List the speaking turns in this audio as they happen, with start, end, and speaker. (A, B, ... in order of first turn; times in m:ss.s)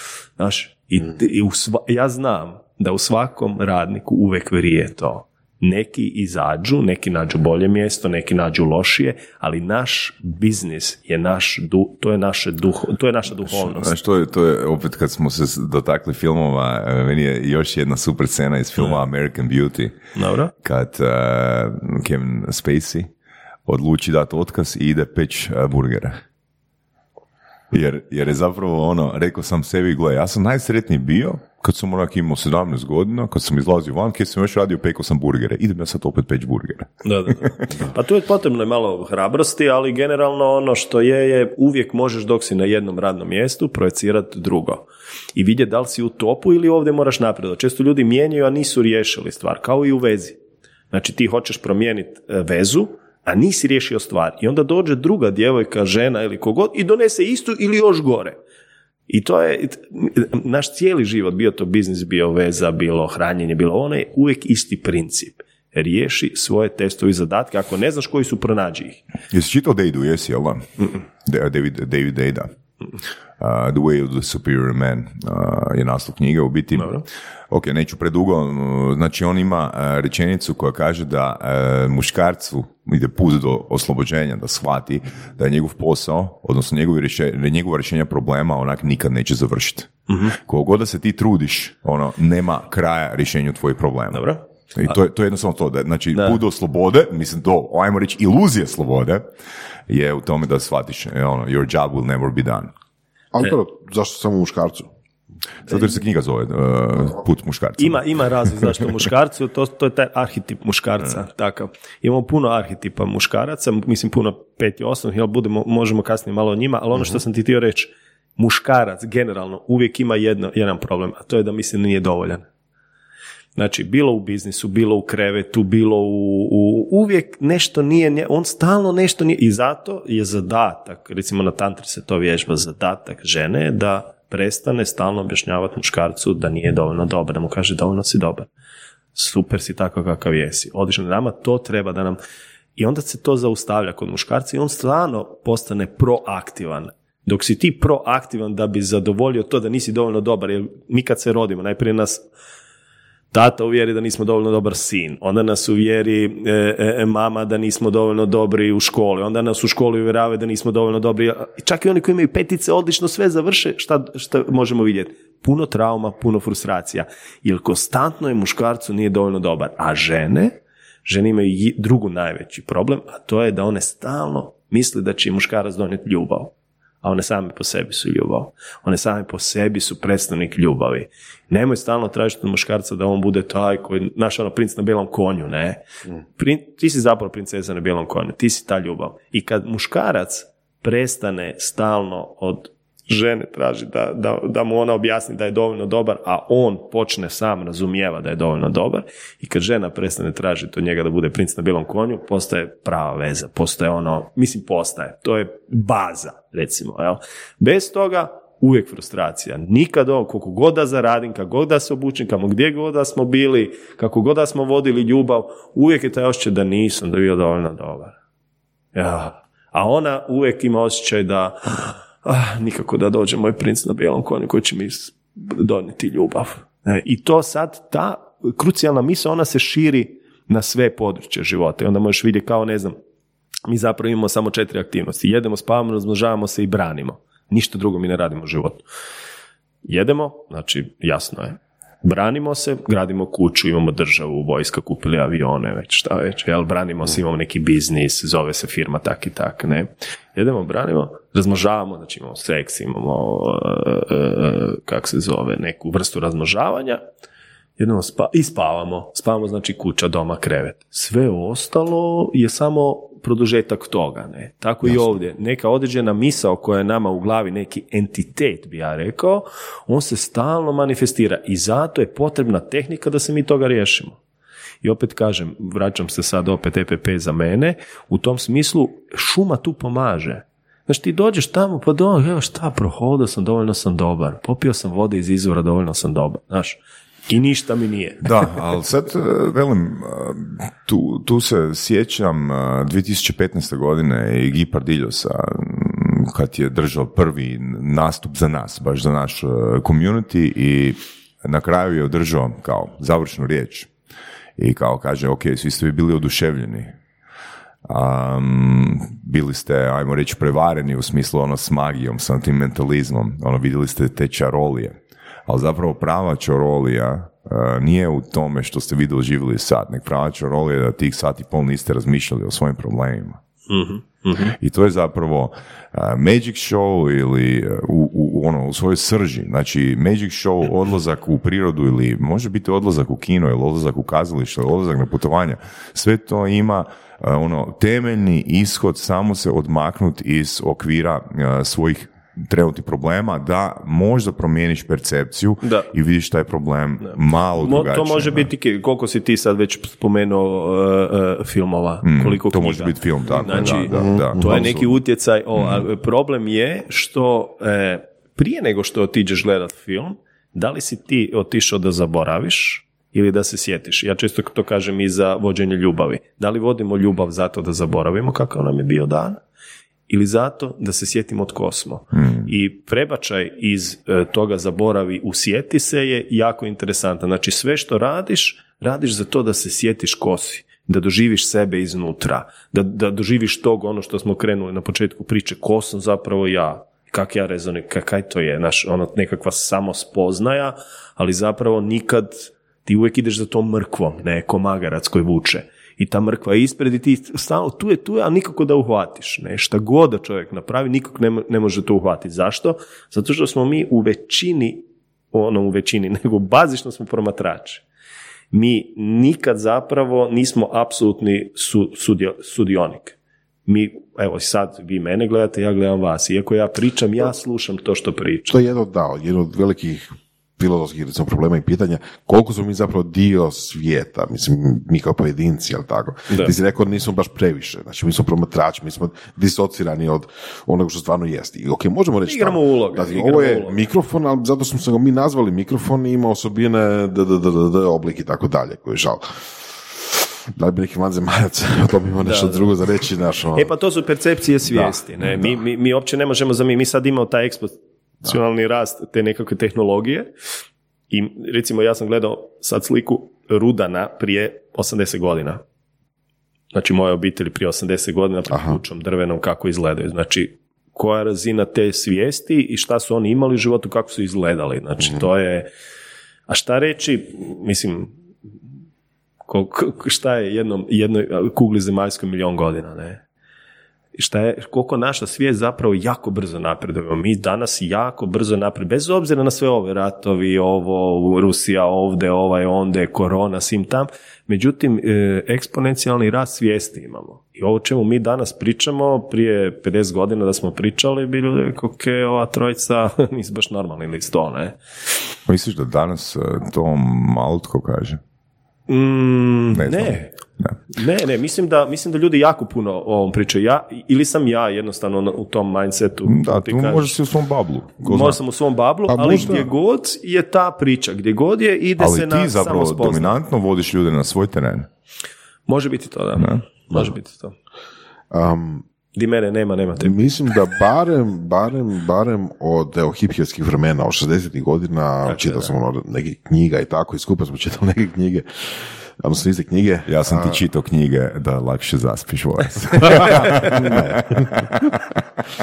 0:00.4-0:13.9 A
0:13.5-0:20.0 B
0:20.1-0:20.5 A
0:20.6-0:23.1 B
0:23.6-0:26.2 B
0:27.7-0:37.5 B
0:37.0-0:50.4 A
0:50.9-0:58.4 A
0:59.1-1:09.0 A
1:09.3-1:12.5 B
1:13.4-1:39.2 B
1:16.7-1:17.0 A
1:30.1-1:30.4 A
1:34.1-1:34.9 A
1:36.1-1:36.4 A
1:39.9-1:42.7 B
1:43.3-1:44.9 C
1:45.7-1:48.7 B
1:47.8-2:02.5 A
2:03.6-2:18.5 A
2:19.1-2:22.2 A
2:22.8-2:32.2 A
2:33.3-3:05.8 A
3:06.4-3:38.2 A
3:38.9-3:53.0 A
3:53.7-3:58.8 A
3:59.8-4:17.0 A
4:17.8-4:34.2 A
4:34.8-4:48.3 A
4:48.2-5:03.9 B
5:04.6-5:06.9 B
5:07.8-5:23.4 B
5:23.7-5:24.6 A
5:24.6-5:48.5 B
5:45.6-5:45.9 A
5:47.0-6:09.4 A
5:52.0-5:54.9 B
5:53.4-5:54.7 C
5:55.6-5:55.9 B
6:10.1-6:47.8 A
6:12.1-6:12.5 B
6:48.5-6:58.5 A
6:58.5-7:19.3 C
7:06.3-7:06.5 A
7:12.2-7:13.8 A
7:20.6-7:23.7 C
7:22.2-7:22.7 A
7:23.5-7:30.3 A
7:24.7-7:25.5 C
7:31.1-7:35.6 A
7:36.7-7:45.7 A
7:38.5-7:38.8 C
7:46.5-7:48.2 A
7:49.5-7:53.2 A
7:54.2-8:14.8 A
8:15.5-8:18.2 B
8:18.9-8:20.3 A
8:19.7-8:20.8 B
8:20.9-8:27.2 A
8:26.2-8:28.4 B
8:28.0-8:33.3 A
8:29.1-8:29.7 C
8:29.3-8:29.6 B
8:32.0-8:34.9 B
8:35.7-8:37.5 A
8:38.3-8:38.8 C
8:39.2-8:40.3 A
8:40.0-8:50.6 C
8:45.3-8:45.7 A
8:50.1-8:55.0 B
8:53.1-8:54.7 C